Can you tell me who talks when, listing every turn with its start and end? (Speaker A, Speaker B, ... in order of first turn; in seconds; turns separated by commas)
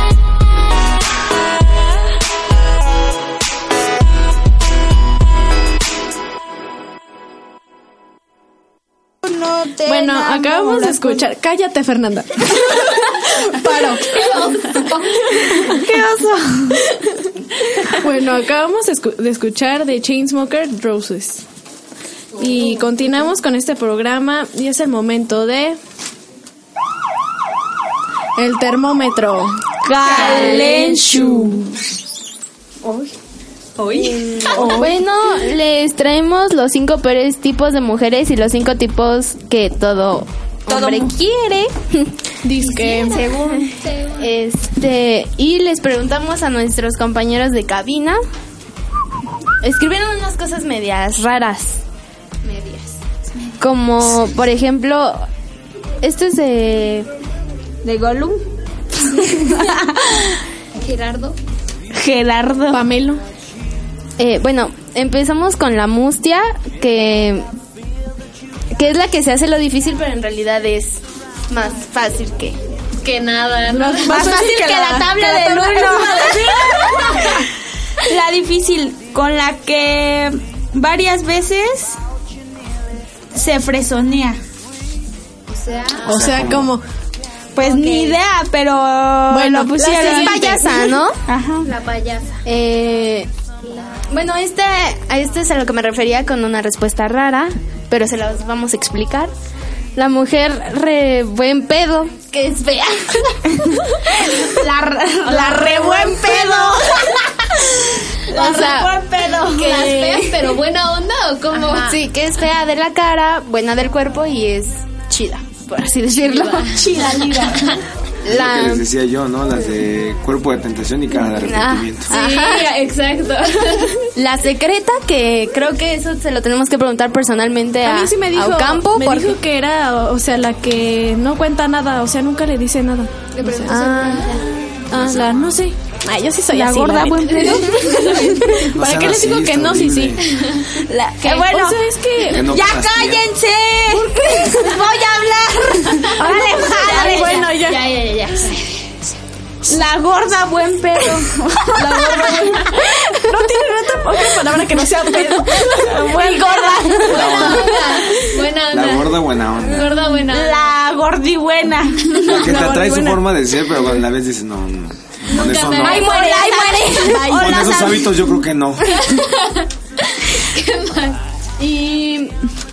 Speaker A: 9.2-11.2, Speaker B: 9.8-15.8, Speaker C: 14.2-14.9, Speaker A: 15.3-16.9, Speaker B: 17.8-21.4, Speaker C: 22.4-22.8, Speaker B: 22.4-25.8, Speaker B: 28.4-29.6, Speaker A: 29.8-31.7, Speaker B: 30.5-31.5, Speaker D: 33.9-42.1, Speaker B: 34.5-34.9, Speaker A: 40.7-41.7, Speaker B: 42.4-43.3, Speaker C: 42.5-44.3, Speaker D: 43.1-48.2, Speaker D: 49.6-51.8, Speaker C: 52.4-53.0, Speaker D: 53.6-55.3, Speaker D: 56.0-57.1, Speaker A: 57.8-58.4, Speaker A: 59.0-60.4, Speaker C: 60.8-61.4, Speaker A: 61.9-62.8, Speaker B: 62.7-63.2, Speaker D: 64.2-67.5, Speaker D: 68.7-72.6, Speaker C: 73.0-74.3, Speaker B: 73.7-77.2, Speaker A: 74.0-77.3, Speaker C: 76.2-77.2, Speaker A: 78.0-82.0, Speaker A: 83.3-84.4, Speaker C: 85.5-86.2, Speaker E: 86.0-86.7, Speaker B: 86.0-86.8, Speaker A: 87.5-90.6, Speaker C: 87.6-88.1, Speaker B: 89.3-90.6, Speaker D: 90.0-91.2, Speaker A: 91.3-91.7, Speaker C: 91.7-92.4, Speaker D: 92.4-93.3, Speaker D: 94.1-99.3, Speaker D: 100.0-103.3, Speaker A: 104.2-110.4, Speaker D: 105.3-106.2, Speaker C: 105.5-105.8, Speaker D: 108.3-108.9, Speaker C: 109.4-112.0, Speaker D: 109.6-110.2, Speaker D: 111.6-117.2, Speaker C: 116.2-117.8, Speaker A: 116.7-117.7, Speaker D: 118.2-118.8, Speaker E: 118.2-122.1, Speaker D: 121.4-122.7, Speaker C: 122.1-124.1, Speaker D: 124.2-129.4, Speaker B: 127.8-140.4, Speaker C: 133.3-134.6, Speaker A: 136.5-138.3, Speaker C: 137.5-138.0, Speaker E: 138.7-140.2, Speaker A: 140.8-147.6, Speaker B: 141.2-142.5, Speaker E: 142.3-143.2, Speaker B: 143.9-144.8, Speaker B: 146.0-147.9, Speaker C: 147.7-149.1, Speaker A: 149.7-152.8, Speaker B: 151.8-158.2, Speaker A: 155.6-157.7, Speaker C: 157.1-160.7, Speaker E: 157.1-157.7, Speaker E: 158.7-159.9, Speaker A: 160.2-162.5, Speaker B: 162.2-163.3, Speaker E: 162.2-166.1, Speaker C: 165.3-167.1, Speaker A: 165.7-168.2, Speaker B: 166.0-167.7, Speaker E: 167.3-169.0, Speaker C: 168.9-171.2, Speaker B: 171.6-172.3